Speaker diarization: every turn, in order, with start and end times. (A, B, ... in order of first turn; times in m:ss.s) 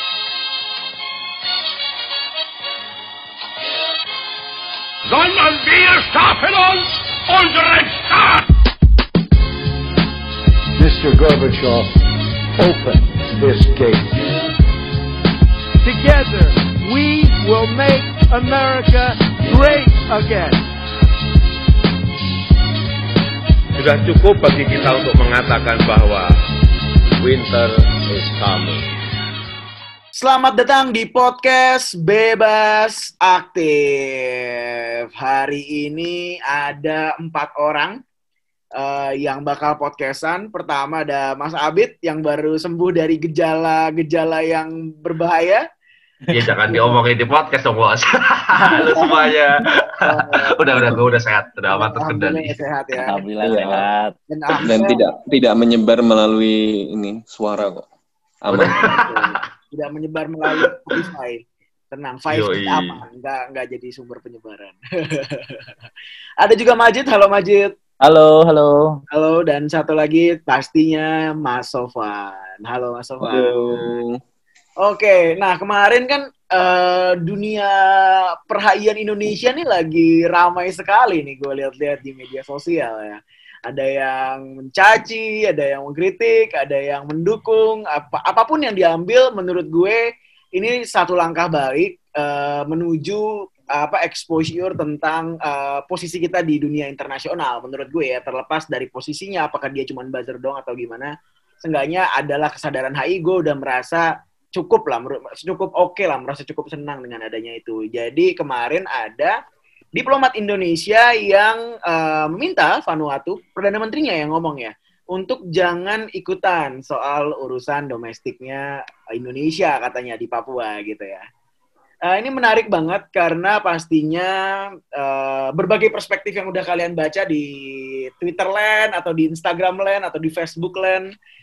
0:05.1-0:08.4 A
0:10.8-0:12.0 B
0:12.5-0:14.4 B
0:15.8-0:20.6 C
0:23.8-0:26.4 D
0:27.2-0:28.9 D
0:30.2-0:38.0 E
0:38.8-0:45.6 E
0:46.3-0:46.9 F
0:46.3-0:49.7 G
0:48.7-0:49.0 F
0:50.0-0:50.6 E
0:50.5-0:52.5 G
0:51.7-0:53.3 E
0:53.0-0:54.1 F
0:53.4-0:53.8 H
0:54.3-0:55.0 E
0:54.6-0:57.8 H
0:58.4-0:59.0 H
0:58.5-0:59.4 G
0:58.6-1:05.7 E
1:02.3-1:03.0 G
1:06.4-1:07.7 E
1:08.0-1:09.0 F
1:09.1-1:13.9 E
1:13.2-1:14.2 H
1:14.8-1:30.0 E
1:30.5-1:41.1 E
1:41.6-1:49.3 E
1:49.9-2:01.2 E
2:02.1-2:04.3 E
2:04.9-2:11.1 E